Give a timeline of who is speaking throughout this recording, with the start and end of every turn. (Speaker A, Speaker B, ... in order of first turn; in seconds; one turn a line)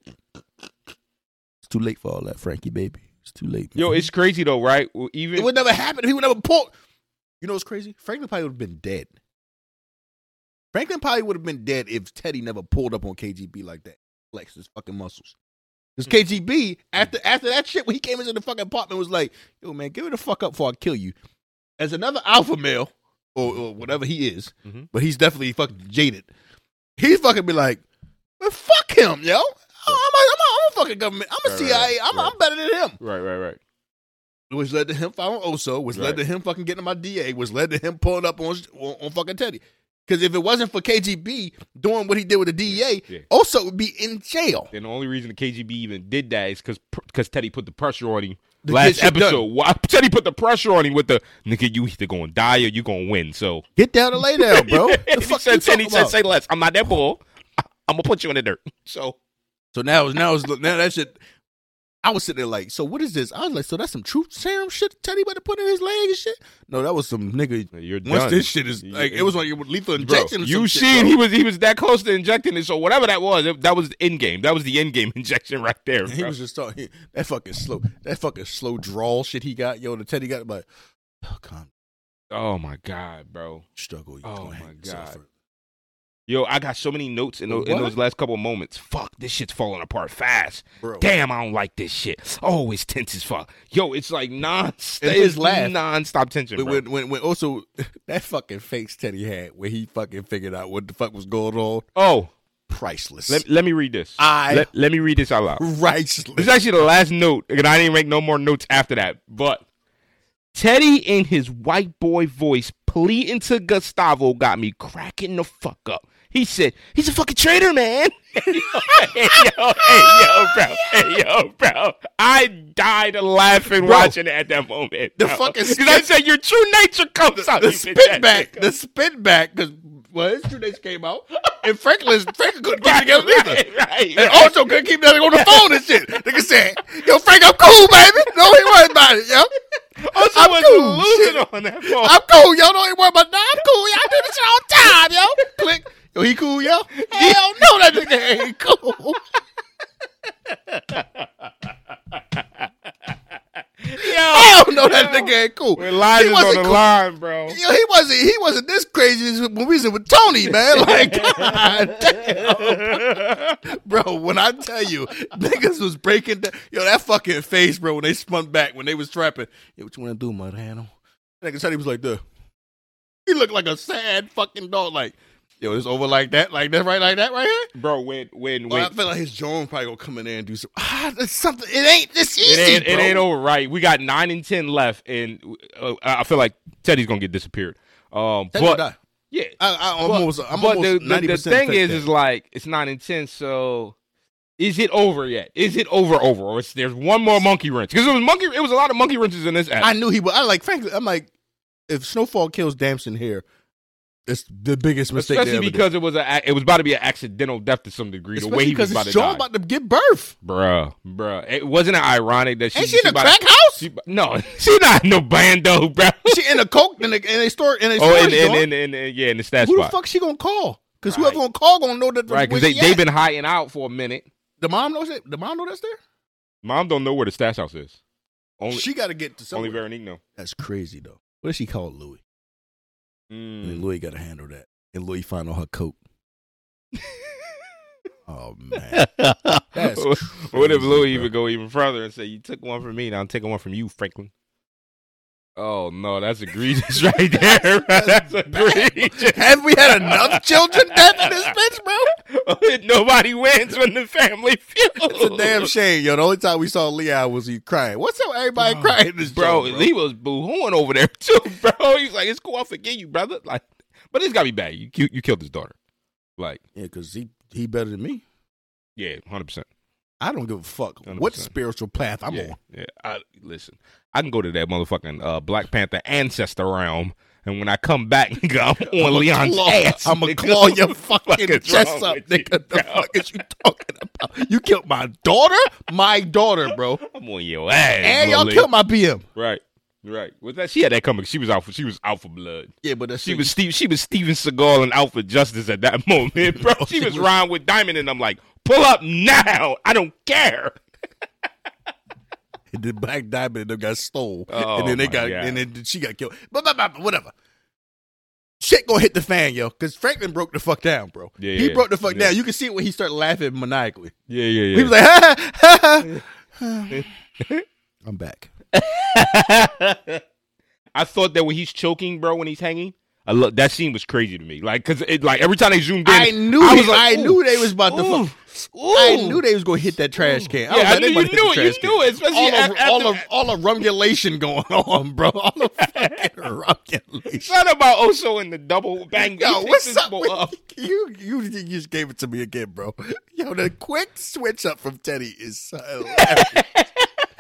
Speaker A: 1.6-4.0
Speaker B: 3.8-5.5
Speaker A: 5.3-6.7
Speaker A: 7.4-9.1
Speaker A: 10.7-15.3
Speaker A: 16.0-21.1
Speaker A: 21.8-26.3
Speaker A: 27.0-27.8
Speaker A: 28.4-33.0
Speaker B: 31.4-32.3
Speaker B: 33.0-33.6
Speaker A: 34.5-44.7
Speaker B: 35.9-36.2
Speaker B: 42.7-43.2
Speaker B: 44.7-53.6
Speaker A: 48.6-49.5
Speaker A: 53.8-56.1
Speaker B: 54.2-59.2
Speaker A: 59.7-61.2
Speaker A: 62.0-71.2
Speaker B: 67.7-69.3
Speaker B: 70.0-76.3
Speaker A: 76.1-80.7
Speaker A: 81.2-81.7
Speaker B: 82.3-83.6
Speaker A: 83.8-85.3
Speaker B: 84.2-85.2
Speaker B: 86.3-96.8
Speaker A: 87.5-88.0
Speaker A: 90.8-91.1
Speaker A: 95.0-95.8
Speaker A: 96.6-101.9
Speaker B: 102.0-102.3
Speaker A: 102.7-103.4
Speaker B: 103.3-105.6
Speaker A: 104.2-104.7
Speaker A: 105.6-106.5
Speaker B: 106.4-109.6
Speaker B: 110.5-128.6
Speaker A: 118.6-119.3
Speaker A: 119.8-120.6
Speaker A: 123.8-124.2
Speaker A: 125.2-126.1
Speaker A: 127.4-133.6
Speaker B: 132.8-134.7
Speaker A: 134.2-139.5
Speaker B: 135.3-135.9
Speaker B: 137.6-138.7
Speaker B: 140.0-142.2
Speaker A: 140.1-149.2
Speaker B: 147.0-148.5
Speaker B: 150.5-151.5
Speaker B: 152.1-153.2
Speaker B: 153.8-157.6
Speaker A: 154.0-156.8
Speaker A: 157.5-172.2
Speaker B: 160.5-163.6
Speaker A: 173.3-177.7
Speaker B: 177.8-178.9
Speaker A: 178.7-183.3
Speaker B: 182.4-193.9
Speaker A: 188.5-189.0
Speaker A: 189.6-192.1
Speaker B: 194.6-199.9
Speaker A: 199.8-201.3
Speaker A: 201.9-203.4
Speaker A: 204.3-205.8
Speaker B: 205.2-209.4
Speaker A: 208.4-210.3
Speaker B: 210.4-216.6
Speaker A: 212.7-213.9
Speaker A: 216.3-218.7
Speaker B: 218.0-219.9
Speaker A: 219.6-223.0
Speaker B: 221.1-221.4
Speaker B: 222.3-224.3
Speaker A: 224.6-226.0
Speaker B: 226.6-228.0
Speaker B: 228.6-228.9
Speaker A: 228.7-229.8
Speaker B: 229.5-230.2
Speaker A: 230.4-232.2
Speaker B: 233.3-233.8
Speaker A: 233.6-236.0
Speaker B: 237.0-237.3
Speaker A: 238.3-239.1
Speaker B: 238.9-244.3
Speaker A: 239.7-241.3
Speaker B: 245.6-251.5
Speaker A: 247.1-252.1
Speaker B: 252.2-255.7
Speaker A: 255.0-259.9
Speaker B: 258.6-265.7
Speaker A: 266.8-268.2
Speaker B: 269.0-269.7
Speaker A: 270.2-272.6
Speaker B: 271.1-271.5
Speaker B: 272.3-283.3
Speaker A: 278.9-287.0
Speaker B: 287.0-288.7
Speaker A: 288.0-289.2
Speaker B: 289.4-292.7
Speaker A: 292.8-293.5
Speaker B: 293.2-300.8
Speaker A: 296.6-297.3
Speaker A: 302.7-307.3
Speaker B: 304.5-305.6
Speaker A: 308.6-314.1
Speaker B: 311.4-312.3
Speaker B: 314.3-314.9
Speaker A: 314.7-317.1
Speaker B: 316.9-317.6
Speaker A: 318.1-318.5
Speaker B: 318.7-320.2
Speaker B: 320.9-329.4
Speaker A: 326.1-328.3
Speaker A: 328.9-337.6
Speaker B: 330.2-333.3
Speaker B: 335.8-336.2
Speaker B: 337.4-340.5
Speaker A: 339.1-346.6
Speaker B: 346.1-347.1